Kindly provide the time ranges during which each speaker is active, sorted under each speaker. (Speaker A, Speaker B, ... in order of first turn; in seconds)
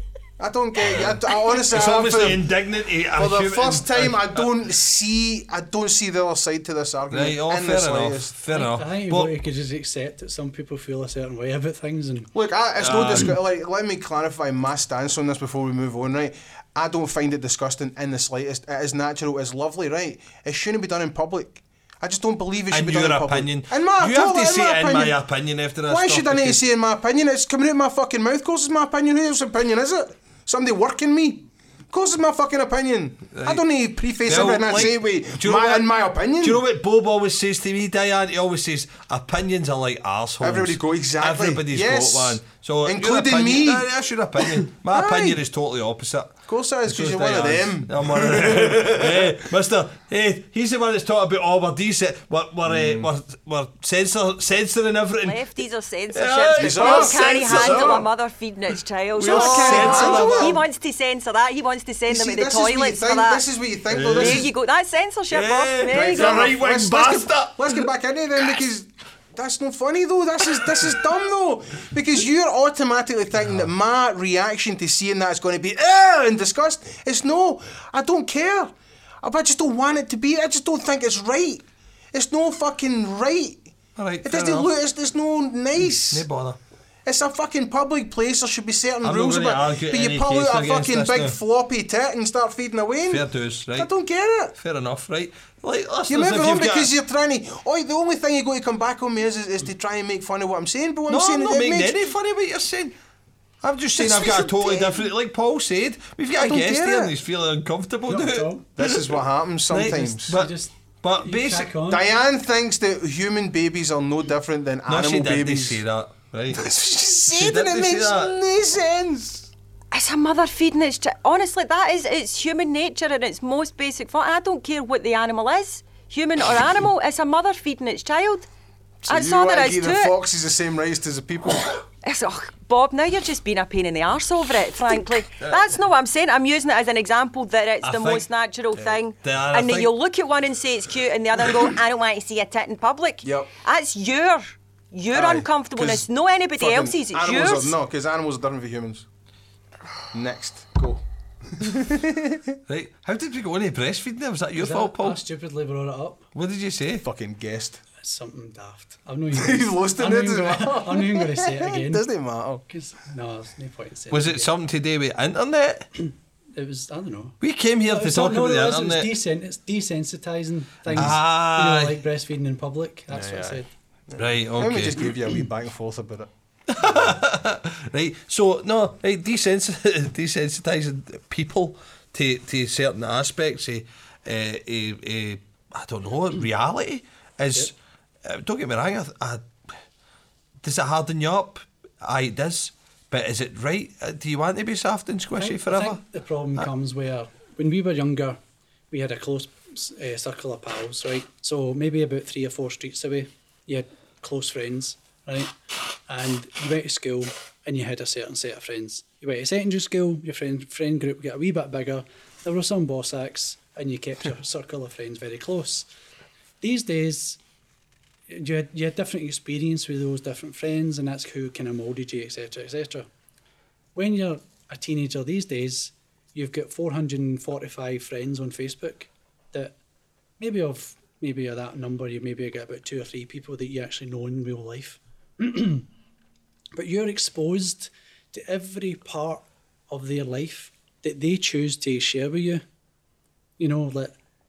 Speaker A: 0.4-2.5, 3.1-8.3, 12.3-25.2, 25.8-36.6, 40.4-43.9, 44.9-45.4, 46.5-49.5, 52.6-53.1, 56.6-58.0, 59.2-60.6, 62.1-64.5, 65.9-86.3, 87.0-94.5, 96.1-102.1, 104.0-105.1, 106.4-107.1, 108.8-110.4, 111.9-115.8, 116.5-119.5, 129.0-131.8, 143.2-143.5, 145.1-149.1, 150.1-152.6, 157.0-157.8, 159.3-162.6, 173.1-176.3
Speaker B: 1.7-4.5, 7.1-9.3, 12.8-13.3, 22.7-26.6, 33.3-33.6, 34.2-35.9, 36.4-55.4, 56.1-58.0, 59.2-60.6, 63.9-64.5, 65.3-67.8, 84.0-84.7, 86.1-86.6, 89.0-91.3, 93.1-93.9, 94.5-96.9, 101.1-102.9, 103.6-109.2, 109.7-111.7, 114.9-116.7, 117.3-118.3, 137.8-138.2, 139.2-139.9, 152.7-155.2, 156.3-157.0, 164.1-165.9, 167.4-169.1, 170.9-172.0, 174.2-175.1, 176.7-187.7, 188.2-189.4, 190.6-196.0
Speaker C: 8.5-12.3, 108.1-108.7, 110.3-112.0, 154.6-156.3, 158.0-162.1, 162.7-164.5, 166.0-173.7, 195.3-198.4, 198.9-205.5, 206.1-215.8, 216.6-217.4, 218.3-223.1, 223.9-229.7, 230.4-235.8, 236.7-242.6, 243.6-244.1
Speaker D: 55.2-63.4, 64.0-66.4, 119.9-128.5, 129.1-130.2, 132.0-147.7